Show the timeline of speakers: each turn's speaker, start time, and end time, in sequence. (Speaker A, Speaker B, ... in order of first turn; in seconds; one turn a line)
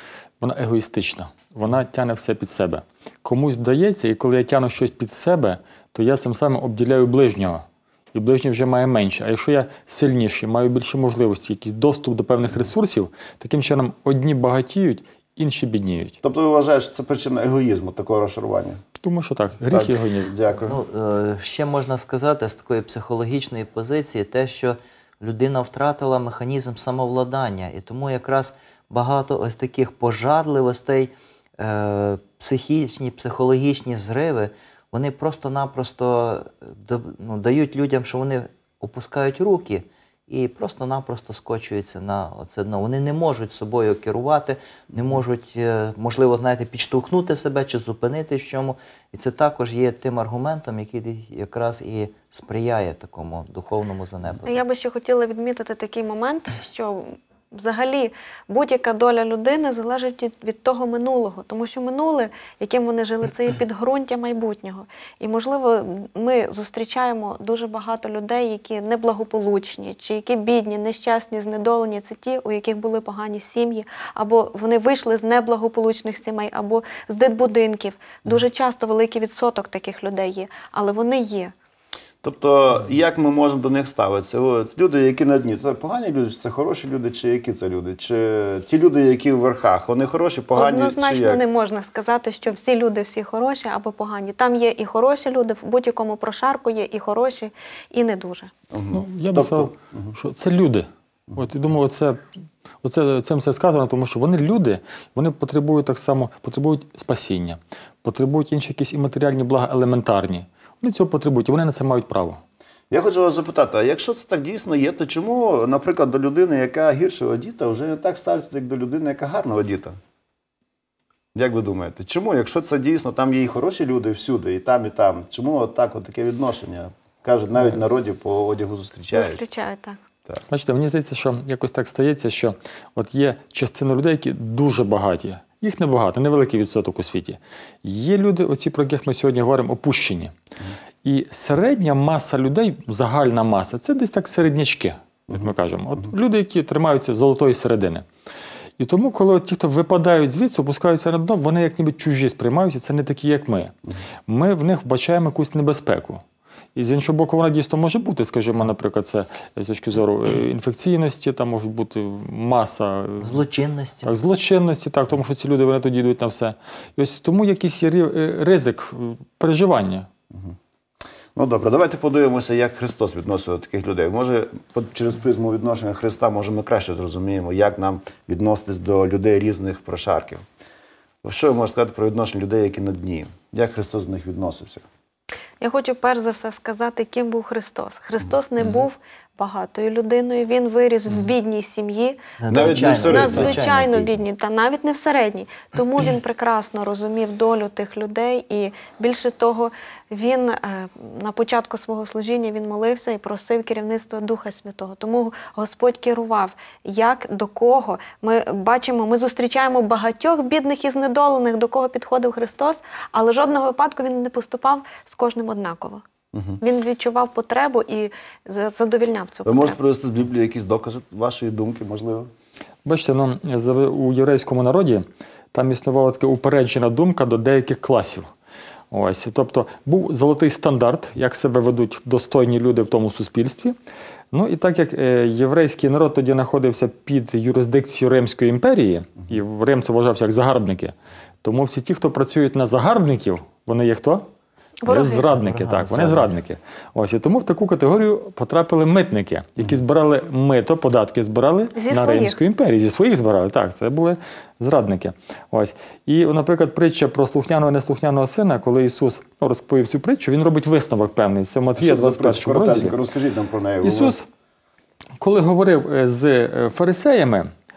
Speaker A: 0.4-16.2
Speaker B: 16.2-18.8
Speaker A: 19.0-20.3
Speaker B: 19.7-20.8
Speaker C: 20.6-54.6
Speaker D: 54.5-81.5
Speaker B: 82.2-91.4
Speaker D: 90.5-98.5
Speaker B: 98.7-100.1
Speaker A: 98.9-102.2
Speaker A: 102.8-112.4
Speaker B: 112.9-119.9
Speaker B: 121.3-129.4
Speaker D: 129.1-130.0
Speaker A: 130.5-140.3
Speaker A: 141.0-148.0
Speaker A: 148.8-153.7
Speaker A: 154.3-156.2
Speaker A: 156.8-163.4
Speaker C: 163.2-164.1
Speaker A: 164.0-170.1
Speaker B: 171.3-180.4
Speaker B: 181.2-184.8
Speaker D: 185.6-216.0
Speaker C: 192.4-194.1
Speaker B: 192.5-193.7
Speaker B: 216.3-216.6
Speaker D: 216.6-219.8
Speaker B: 219.4-222.3
Speaker A: 222.8-228.3
Speaker A: 228.9-233.7
Speaker A: 234.3-244.2
Speaker D: 244.8-245.2
Speaker A: 244.9-263.0
Speaker C: 245.4-246.3
Speaker D: 251.8-252.4
Speaker B: 261.8-264.1
Speaker A: 263.8-264.2
Speaker A: 265.2-267.5